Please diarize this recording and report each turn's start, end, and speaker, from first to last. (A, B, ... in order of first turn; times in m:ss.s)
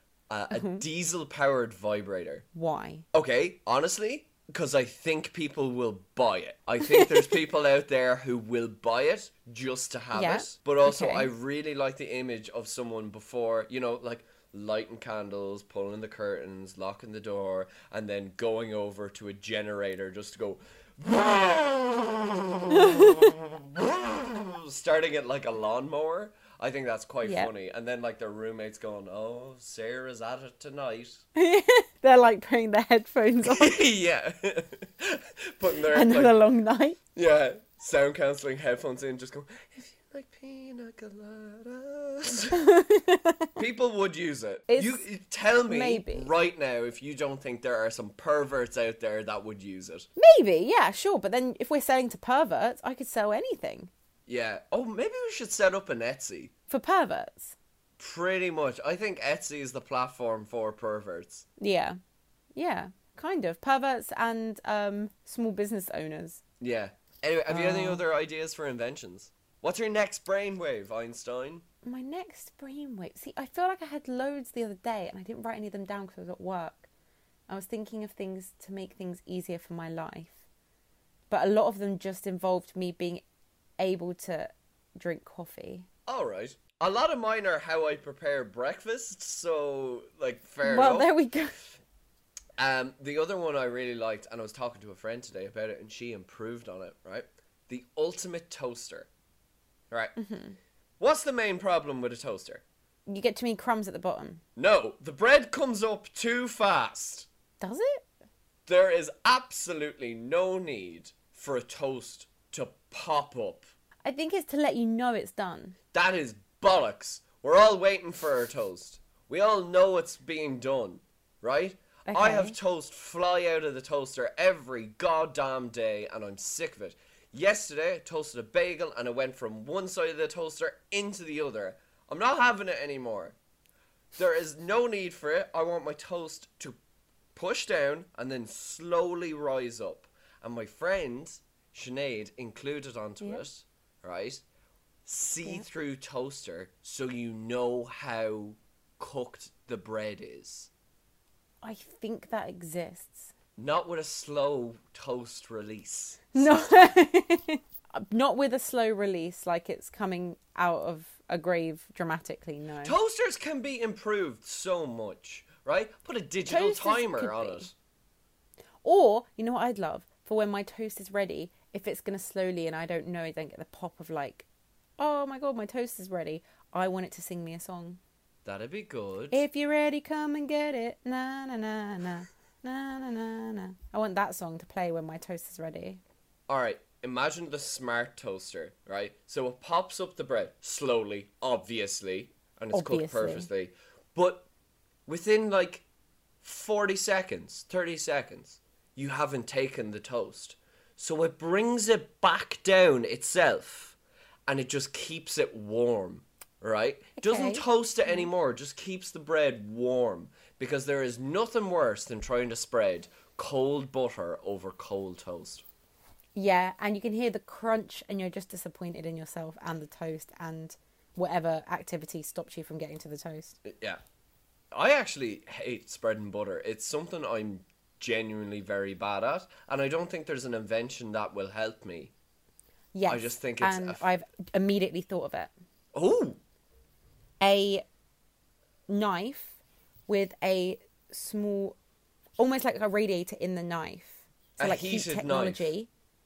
0:00.3-0:02.4 A
0:00.5-0:00.8 B
0:02.5-0:03.0 B
0:03.1-0:31.2 A
0:06.8-0:07.3 B
0:10.1-0:11.3 B
0:22.7-0:23.3 B
0:27.2-0:27.5 B
0:31.3-0:33.8 B
0:33.4-0:36.4 A
0:35.9-0:37.0 B
0:37.1-0:42.6 A
0:42.5-0:43.6 B
0:43.6-0:50.1 A
0:44.7-0:45.0 B
0:45.7-0:46.3 B
0:50.2-0:53.9 B
0:54.3-0:56.5 A
0:56.7-0:57.6 B
0:58.0-1:01.4 A
1:01.6-1:02.0 B
1:02.5-1:06.4 B
1:06.6-1:11.6 A
1:07.5-1:08.0 B
1:11.8-1:16.9 B
1:17.5-1:20.4 B
1:21.3-1:23.2 B
1:23.8-1:25.8 B
1:26.1-1:31.1 A
1:30.6-1:31.6 B
1:32.6-1:39.1 A
1:40.2-1:40.6 B
1:41.0-1:42.6 A
1:43.1-1:44.4 B
1:44.6-1:47.3 A
1:47.6-1:48.1 B
1:48.6-1:53.7 A
1:54.0-1:55.8 B
1:55.9-2:13.4 A
2:02.0-2:02.6 B
2:14.2-2:16.8 A
2:17.3-2:24.4 A
2:25.0-2:30.7 A
2:31.6-2:33.3 B
2:33.6-2:36.9 A
2:36.3-2:43.0 B
2:42.8-2:47.7 A
2:46.5-2:47.7 B
2:48.8-2:54.5 B
2:55.0-2:58.0 B
2:58.4-2:59.4 A
2:59.3-3:06.0 B
3:06.5-3:14.5 A
3:12.7-3:13.5 B
3:15.1-3:15.8 A
3:16.4-3:24.0 A
3:24.5-3:35.6 A
3:27.2-3:28.3 B
3:36.4-3:43.6 B
3:43.6-3:44.0 A
3:44.7-3:52.1 A
3:52.9-3:55.5 B
3:53.1-3:54.0 A
3:55.9-3:56.4 A
3:57.4-3:57.8 B
3:58.9-4:01.8 B
4:02.4-4:05.9 B
4:04.6-4:05.7 A